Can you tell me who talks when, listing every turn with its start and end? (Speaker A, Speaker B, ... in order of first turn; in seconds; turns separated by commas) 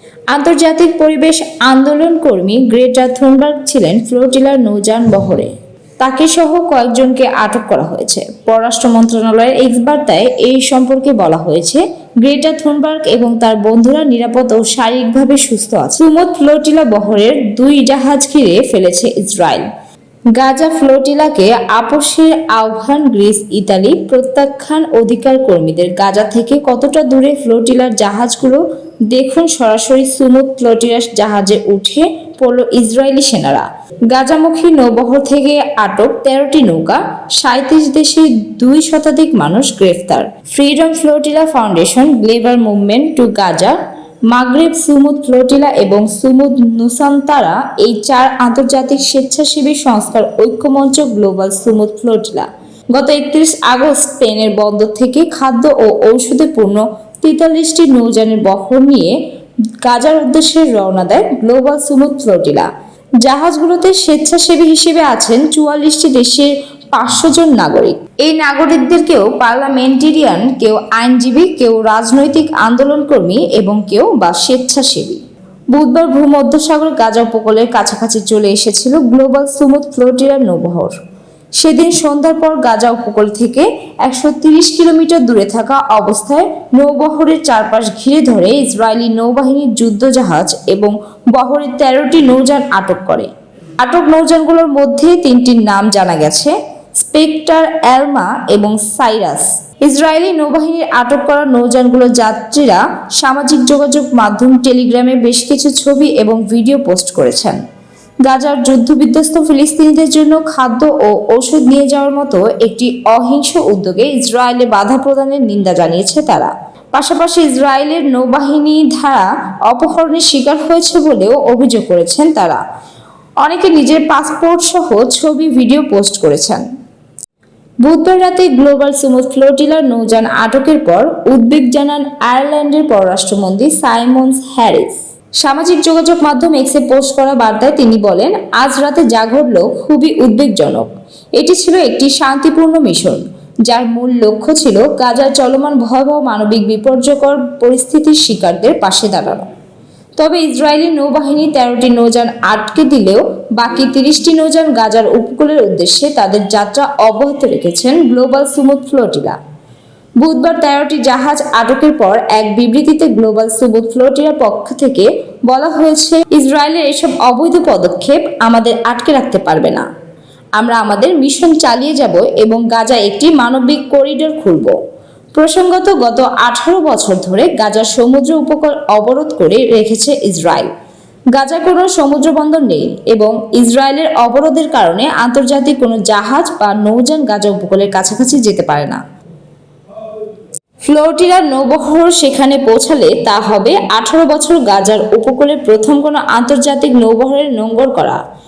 Speaker A: 0.3-19.6, Speaker A: 20.3-43.8, Speaker A: 44.3-59.2, Speaker A: 59.8-62.7, Speaker A: 63.2-75.2, Speaker A: 75.7-80.9, Speaker A: 81.6-107.6, Speaker A: 108.2-122.6, Speaker A: 123.4-126.6, Speaker A: 127.8-149.5, Speaker A: 150.2-159.4, Speaker A: 160.2-169.8, Speaker A: 170.6-174.8, Speaker A: 175.3-180.7, Speaker A: 181.3-189.0, Speaker A: 190.8-198.2